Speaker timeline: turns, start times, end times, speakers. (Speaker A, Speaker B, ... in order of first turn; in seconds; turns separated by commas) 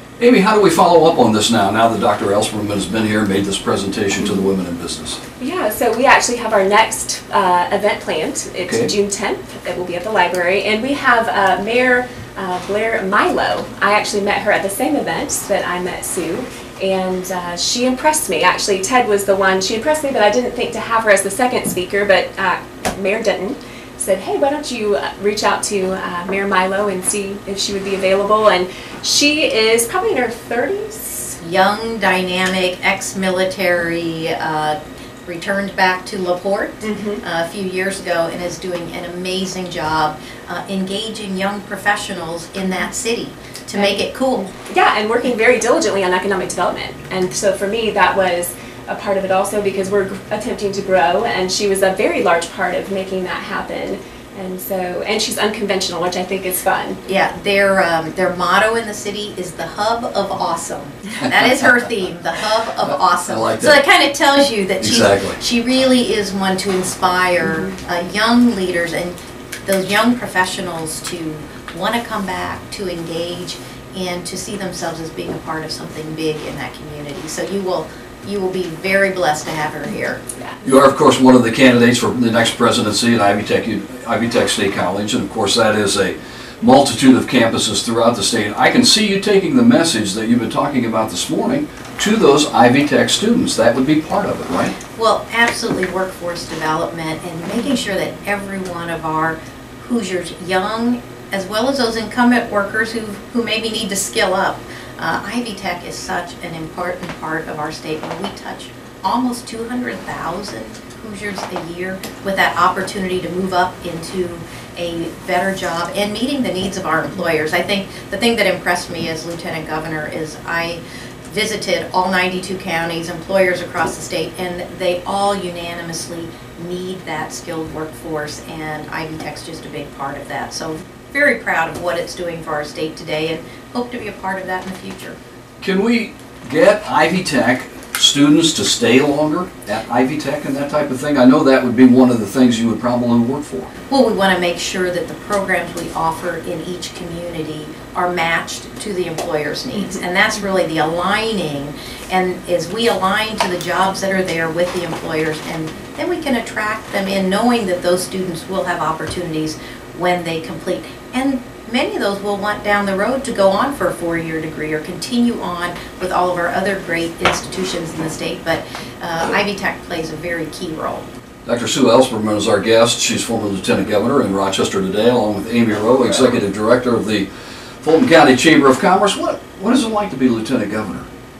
Speaker A: 0.2-5.2, Speaker B: 5.4-31.4, Speaker C: 31.4-44.5, Speaker B: 36.8-37.2, Speaker B: 43.7-44.0, Speaker B: 44.7-57.0, Speaker C: 57.1-80.2, Speaker A: 63.2-63.8, Speaker A: 64.8-65.4, Speaker A: 80.6-94.7, Speaker C: 95.0-135.2, Speaker A: 135.6-143.7, Speaker C: 143.9-171.0, Speaker B: 149.7-150.0, Speaker A: 171.4-177.3, Speaker A: 177.8-181.1